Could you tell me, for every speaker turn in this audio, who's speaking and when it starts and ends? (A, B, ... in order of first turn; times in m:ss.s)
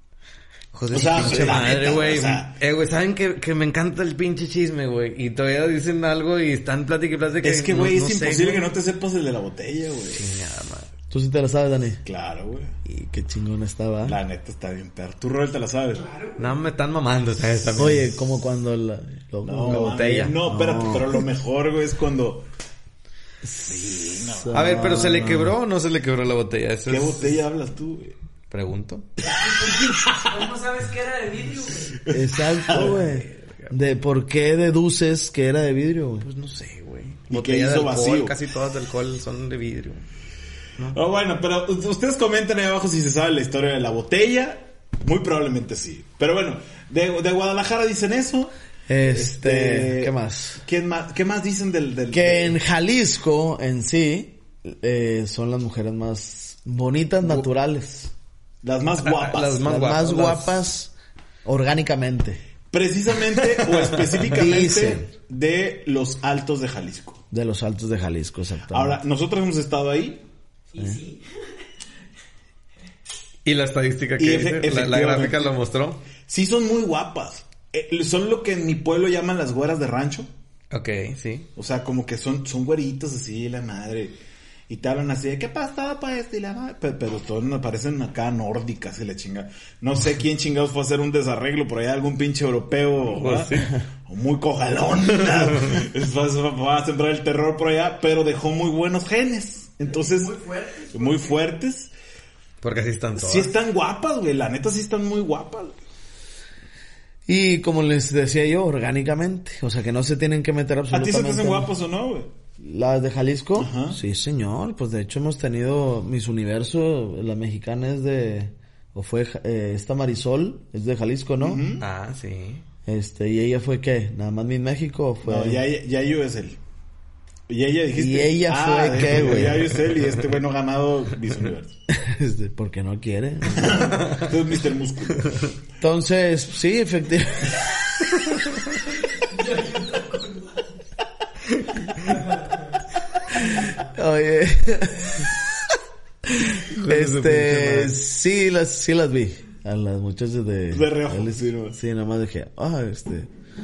0:00.7-0:08.7 A
0:00.9-0:02.6 B
0:07.4-0:10.3 B
0:10.1-0:10.9 A
0:11.1-0:12.0 C
0:12.0-0:12.8 B
0:12.9-0:14.2 C
0:14.0-0:16.0 B
0:16.0-0:16.4 D
0:16.4-0:18.1 A
0:17.8-0:21.2 C
0:19.4-0:22.5 B
0:19.7-0:20.4 A
0:23.4-0:25.5 C
0:23.7-0:24.8 B
0:24.5-0:27.4 A
0:26.9-0:28.2 B
0:28.5-0:29.1 A
0:29.4-0:32.0 D
0:29.7-0:30.3 B
0:32.0-0:33.0 B
0:32.1-0:36.3 C
0:33.0-0:33.7 A
0:36.2-0:40.1 A
0:37.3-0:38.4 B
0:40.9-0:48.5 B
0:48.9-0:50.6 C
0:49.1-0:52.6 B
0:52.1-0:58.1 C
0:58.6-0:59.6 B
0:59.0-1:00.6 A
0:59.6-1:00.9 C
1:01.4-1:02.4 C
1:02.7-1:07.2 B
1:03.8-1:04.2 A
1:04.3-1:05.1 C
1:07.3-1:09.0 C
1:08.7-1:10.2 B
1:10.7-1:11.2 D
1:13.4-1:16.0 A
1:14.2-1:15.5 B
1:16.2-1:20.3 B
1:20.7-1:21.5 A
1:21.6-1:24.2 B
1:24.7-1:40.3 B
1:33.1-1:33.8 A
1:35.2-1:35.8 A
1:39.8-1:41.4 D
1:40.9-1:41.9 B
1:42.6-1:43.5 A
1:43.2-1:45.8 B
1:47.3-1:51.7 C
1:50.9-1:52.3 B
1:52.6-2:01.6 C
1:53.6-1:54.0 B
2:01.4-2:01.8 B
2:01.8-2:02.6 A
2:02.9-2:05.6 C
2:05.2-2:06.6 B
2:07.5-2:11.8 B
2:08.0-2:09.7 C
2:11.9-2:14.0 C
2:13.5-2:15.4 B
2:15.8-2:17.8 C
2:19.1-2:20.6 D
2:21.6-2:22.1 A
2:22.1-2:22.6 D
2:23.4-2:25.7 C
2:26.3-2:33.3 C
2:26.7-2:28.0 A
2:30.7-2:31.8 B